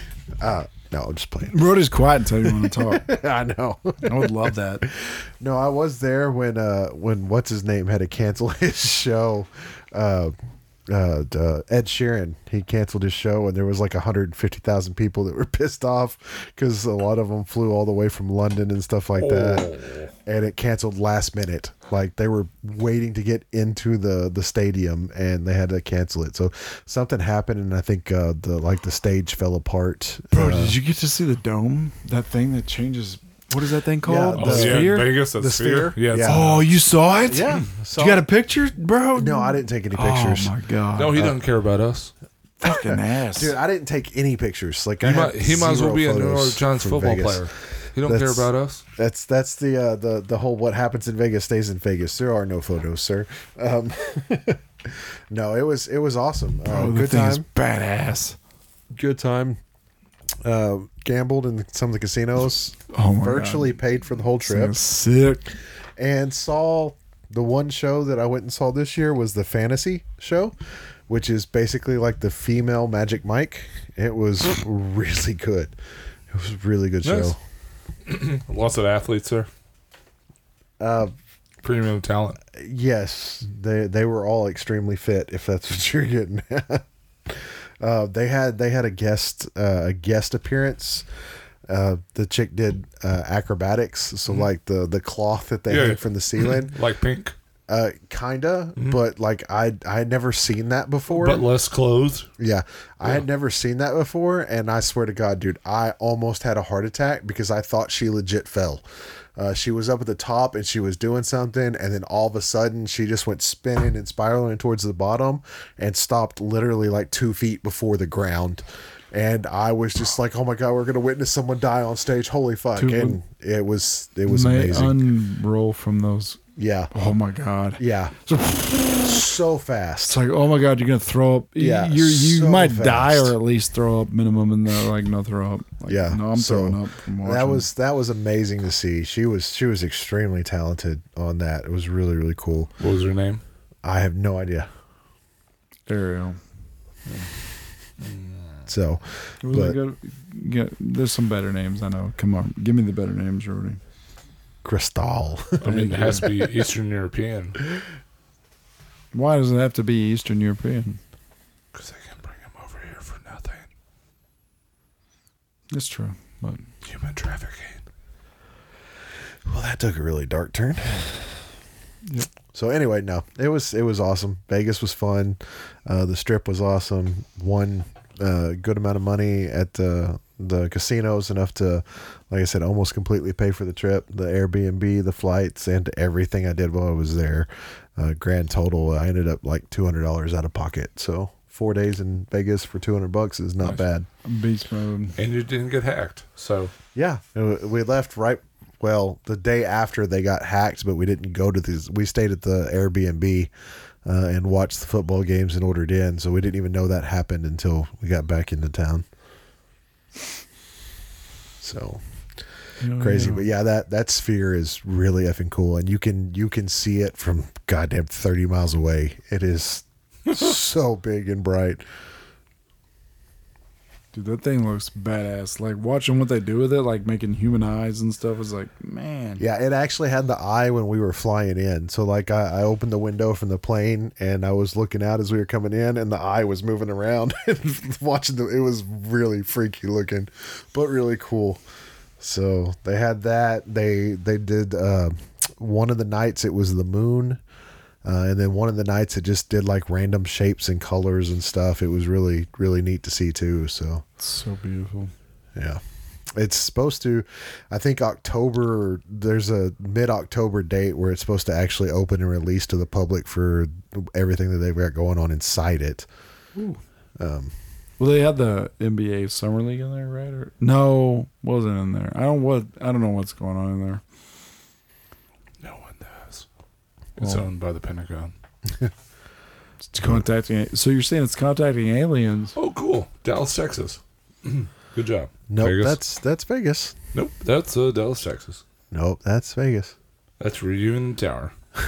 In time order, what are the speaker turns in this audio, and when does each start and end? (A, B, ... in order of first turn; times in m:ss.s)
0:00.4-0:01.7 A
0:01.5-0:03.1 B
0:02.4-0:10.3 A
0:04.0-0:04.8 B
0:10.9-0:19.7 A
0:19.2-0:20.1 C
0:20.2-0:30.8 A
0:30.3-0:35.1 B
0:34.0-0:36.4 A
0:34.4-0:36.6 C
0:36.2-0:41.3 B
0:37.3-0:38.3 A
0:39.2-0:40.5 A
0:41.0-0:42.1 C
0:42.6-0:43.6 B
0:42.6-0:47.5 A
0:45.0-0:48.8 C
0:48.0-0:57.4 A
0:56.7-0:58.4 B
0:58.9-0:59.6 A
1:00.4-1:04.8 A
1:02.8-1:03.8 B
1:04.4-1:05.5 B
1:06.0-1:10.5 A
1:11.1-1:15.7 A
1:16.3-1:17.4 A
1:17.0-1:17.3 C
1:18.1-1:19.5 C
1:20.8-1:21.1 A
1:21.6-1:22.4 C
1:22.5-1:31.1 A
1:31.7-1:36.7 A
1:35.7-1:37.4 C
1:37.7-1:41.4 A
1:41.1-1:42.3 C
1:42.4-1:48.8 A
1:49.4-2:05.0 A
2:02.8-2:03.2 B
2:04.3-2:06.4 B
2:06.6-2:06.9 A
2:06.9-2:09.3 B
2:07.8-2:08.2 A
2:09.0-2:10.2 A
2:10.1-2:17.7 B
2:11.6-2:13.3 A
2:15.9-2:22.7 A
2:22.8-2:23.4 C
2:23.8-2:24.7 A
2:25.9-2:26.4 B
2:28.0-2:28.6 C
2:28.7-2:29.8 A
2:29.4-2:33.8 B
2:34.6-2:36.3 A
2:35.6-2:37.6 C
2:35.7-2:36.1 B
2:39.1-2:41.0 B
2:41.7-2:43.7 C
2:45.7-2:46.6 B
2:46.8-2:47.8 C
2:49.4-2:51.3 A
2:52.5-3:14.1 A
3:14.2-3:15.2 B
3:15.2-3:16.7 C
3:16.9-3:23.5 A
3:24.0-3:29.0 A
3:31.6-3:32.0 A
3:32.8-3:33.4 B
3:32.9-3:41.8 A
3:44.1-3:49.4 B
3:49.4-4:01.6 A
4:02.2-4:07.4 A
4:08.0-4:14.0 A
4:14.2-4:15.1 B
4:15.6-4:15.8 A
4:16.4-4:26.1 A
4:27.2-4:27.5 A
4:28.0-4:34.0 B
4:35.6-4:36.5 C
4:37.2-4:38.3 C
4:39.8-4:42.6 B
4:42.6-4:46.0 C
4:45.5-4:47.0 A
4:47.1-4:48.6 C
4:48.9-4:50.0 A
4:50.4-4:51.5 C